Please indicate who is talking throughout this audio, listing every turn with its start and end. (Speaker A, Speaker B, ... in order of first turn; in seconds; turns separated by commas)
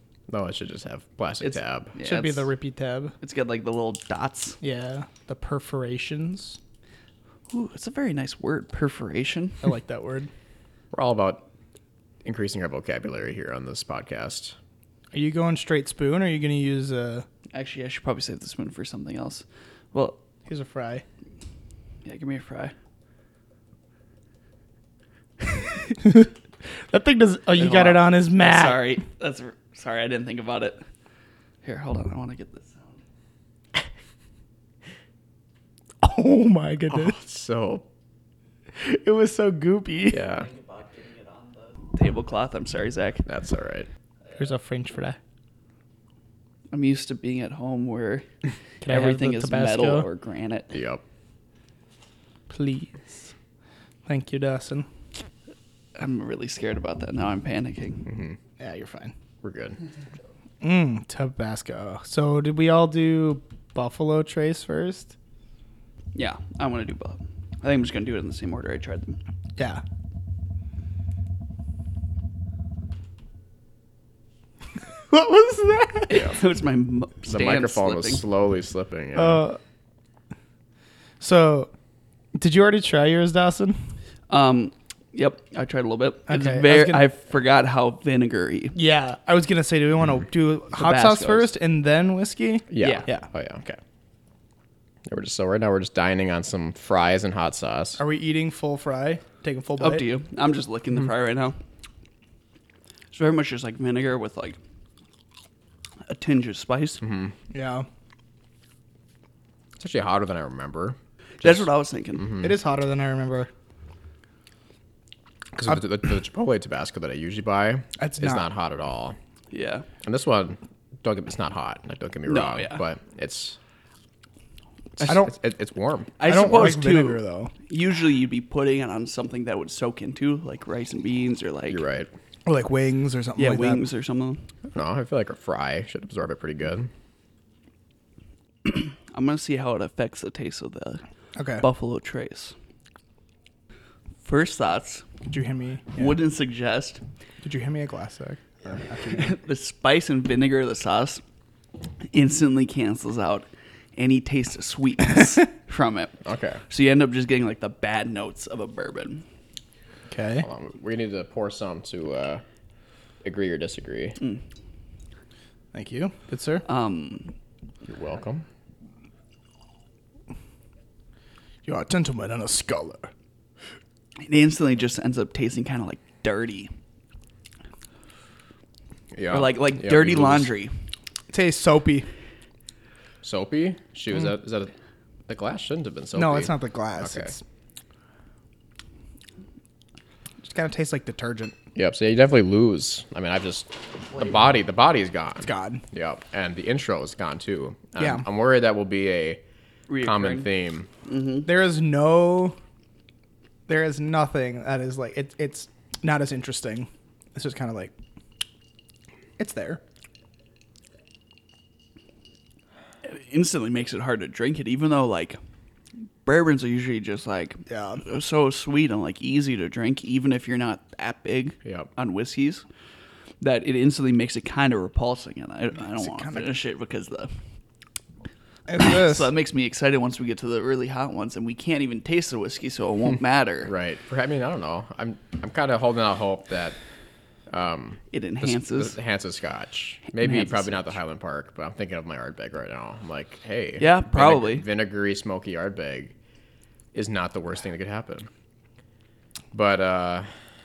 Speaker A: 0.3-1.9, Speaker B: 1.4-2.5, Speaker C: 2.0-3.1, Speaker B: 3.2-4.6, Speaker C: 4.6-6.6, Speaker B: 7.5-9.6, Speaker C: 9.6-10.3, Speaker A: 10.9-11.4, Speaker A: 12.2-14.6, Speaker C: 15.1-17.2, Speaker B: 17.5-20.2, Speaker C: 20.4-21.0, Speaker B: 22.0-22.7, Speaker C: 25.9-28.8, Speaker B: 27.6-30.8, Speaker B: 31.6-33.0, Speaker C: 36.0-37.2, Speaker A: 36.9-37.8, Speaker C: 38.7-40.2, Speaker A: 40.1-40.5, Speaker B: 40.4-43.2, Speaker A: 43.2-43.9, Speaker C: 44.4-45.2, Speaker B: 46.7-48.2, Speaker C: 48.8-50.1, Speaker B: 48.9-50.7, Speaker A: 50.7-51.0, Speaker C: 52.5-53.3, Speaker C: 54.0-54.9, Speaker B: 56.0-58.1, Speaker A: 58.0-58.4, Speaker C: 58.6-59.1, Speaker A: 59.4-59.8, Speaker C: 60.6-65.1, Speaker B: 66.1-69.2, Speaker C: 69.6-69.8, Speaker C: 75.0-76.3, Speaker B: 76.1-78.2, Speaker A: 77.3-79.4, Speaker C: 79.1-79.6, Speaker C: 81.2-81.7, Speaker C: 82.3-83.8, Speaker B: 84.3-88.8, Speaker C: 86.3-87.1, Speaker C: 88.7-93.3, Speaker B: 90.7-91.5, Speaker A: 92.7-93.6, Speaker B: 92.8-93.1, Speaker A: 95.0-98.0, Speaker C: 98.0-100.0, Speaker B: 99.8-101.6, Speaker B: 103.1-104.6, Speaker B: 106.1-107.0, Speaker A: 107.0-107.3, Speaker C: 107.5-107.9, Speaker A: 109.8-111.7, Speaker B: 111.4-112.3, Speaker A: 112.2-112.5, Speaker C: 112.4-113.5, Speaker A: 115.5-119.2, Speaker C: 118.0-118.5, Speaker B: 119.5-119.8, Speaker A: 120.0-123.6, Speaker B: 122.2-122.8, Speaker A: 125.0-126.3, Speaker C: 125.0-125.3, Speaker B: 126.2-131.8, Speaker C: 126.2-127.5, Speaker A: 131.7-132.1, Speaker C: 132.4-133.9, Speaker B: 133.3-134.4, Speaker A: 134.7-136.9, Speaker B: 138.6-141.0, Speaker C: 141.3-141.6, Speaker B: 141.6-142.5, Speaker B: 144.2-145.1, Speaker C: 145.2-146.2, Speaker B: 145.9-147.0, Speaker C: 147.4-149.3, Speaker B: 149.1-151.2, Speaker B: 152.1-156.2, Speaker A: 156.2-156.6, Speaker B: 156.7-159.2, Speaker C: 160.1-160.4, Speaker A: 160.4-162.4, Speaker A: 163.2-164.2, Speaker C: 165.7-166.6, Speaker B: 166.7-167.3, Speaker A: 167.8-168.4, Speaker C: 171.6-173.1, Speaker B: 174.2-176.7, Speaker A: 179.1-180.5, Speaker B: 179.3-180.7, Speaker C: 181.3-182.1, Speaker A: 183.2-184.7, Speaker A: 185.3-187.3, Speaker C: 186.1-187.4, Speaker C: 190.4-191.6, Speaker A: 191.7-199.4, Speaker C: 195.4-195.8, Speaker C: 198.0-198.2, Speaker B: 199.9-200.5, Speaker A: 200.0-200.9, Speaker B: 201.0-201.5, Speaker C: 201.4-202.6, Speaker C: 203.7-207.9, Speaker C: 209.4-209.8, Speaker B: 213.0-215.4, Speaker B: 216.2-222.6, Speaker C: 217.7-218.0, Speaker A: 221.6-221.9, Speaker B: 223.4-227.3, Speaker C: 226.0-226.5, Speaker C: 228.7-229.3, Speaker B: 228.8-233.7, Speaker A: 233.6-236.8, Speaker A: 237.5-246.1, Speaker B: 238.1-238.9, Speaker B: 240.1-240.8, Speaker B: 243.8-244.6, Speaker A: 246.9-248.3, Speaker A: 249.5-250.3